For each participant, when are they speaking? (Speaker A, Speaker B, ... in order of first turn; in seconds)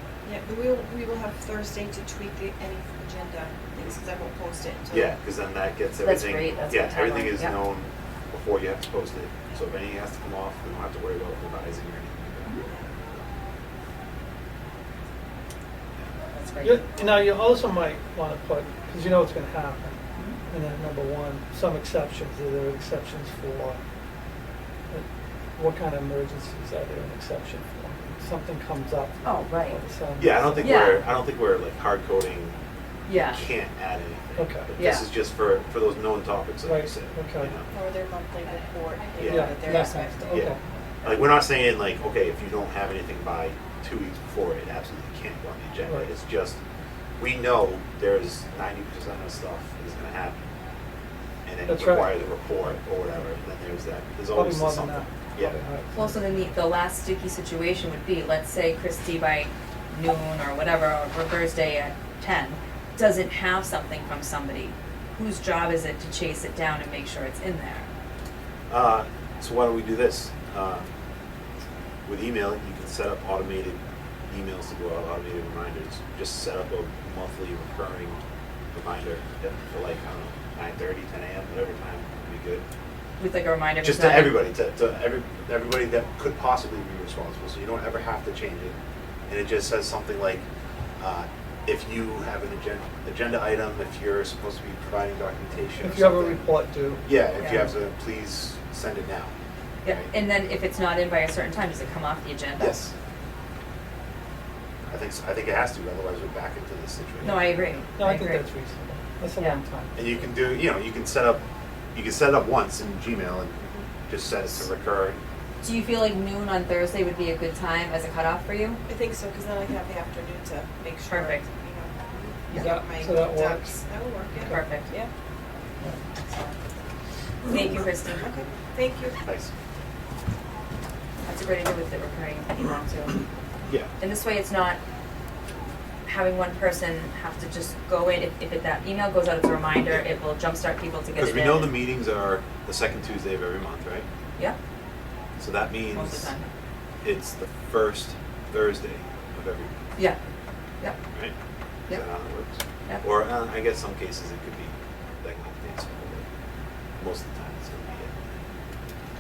Speaker A: 0.2-5.2, 12.7-12.9, 37.7-40.5, 118.9-125.1, 128.1-129.2
Speaker B: 4.9-12.5, 30.2-32.6, 33.3-37.7, 39.2-39.6, 41.0-46.6, 47.2-50.4, 51.5-55.5, 68.7-70.9, 72.1-78.2, 78.7-82.6, 83.8-88.8, 89.3-90.5, 91.0-96.4, 97.0-99.3, 99.8-100.1, 102.6-102.9, 104.9-107.8, 110.0-111.4, 112.0-113.6, 114.1-115.2, 129.2-129.5, 141.2-144.1, 145.4-146.3, 147.0-149.7, 151.9-156.2, 157.0-158.4
Speaker C: 6.0-7.6, 16.3-16.9, 29.2-29.8, 30.6-31.0, 33.1-33.5, 34.8-35.1, 55.9-67.9, 83.2-84.4, 97.4-97.7, 99.8-102.8, 107.2-108.4, 115.6-118.8, 121.1-121.5, 124.5-124.9, 126.2-126.5, 127.5-128.3, 131.3-133.2, 134.0-134.8, 136.1-141.8, 145.9-146.5
Speaker D: 16.6-23.8, 25.6-30.8, 34.4-34.7, 36.7-37.5, 39.2-40.6, 51.7-52.2, 54.3-56.3, 95.8-97.5, 108.0-110.0, 122.5-123.7